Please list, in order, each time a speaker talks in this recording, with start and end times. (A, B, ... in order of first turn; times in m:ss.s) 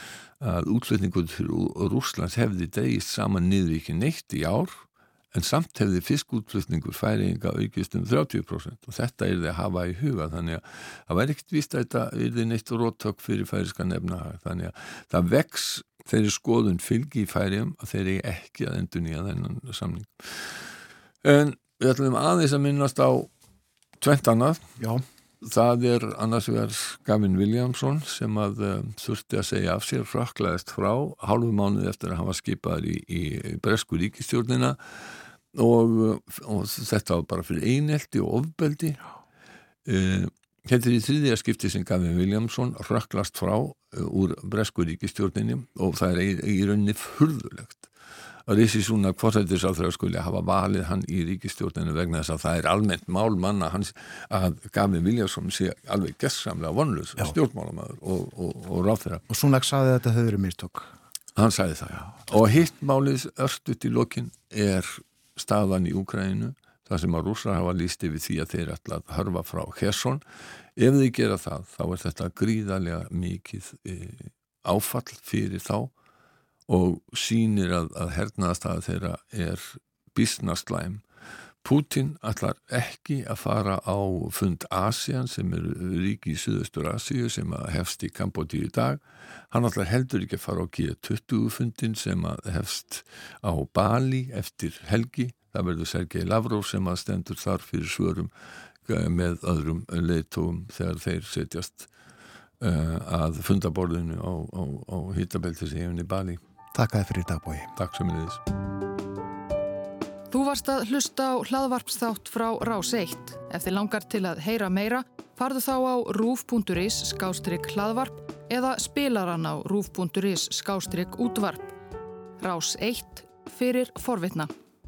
0:00.4-0:04.8 A
0:05.3-0:20.6 A
0:21.2-0:23.3 A
0:24.0-0:24.6 A
0:25.4-0:34.8 A
0:35.5-0:39.0 A
0:39.9-0:47.9 A
0:48.5-0:59.2 A
0:59.3-1:00.9 B
1:01.4-1:10.2 A
1:10.8-1:15.9 A
1:16.7-1:21.0 A
1:21.6-1:38.3 A
1:38.8-1:41.9 A
1:42.6-1:46.4 A
1:46.7-1:47.7 B
1:47.8-1:48.4 A
1:50.3-2:01.7 C
2:02.4-2:04.5 C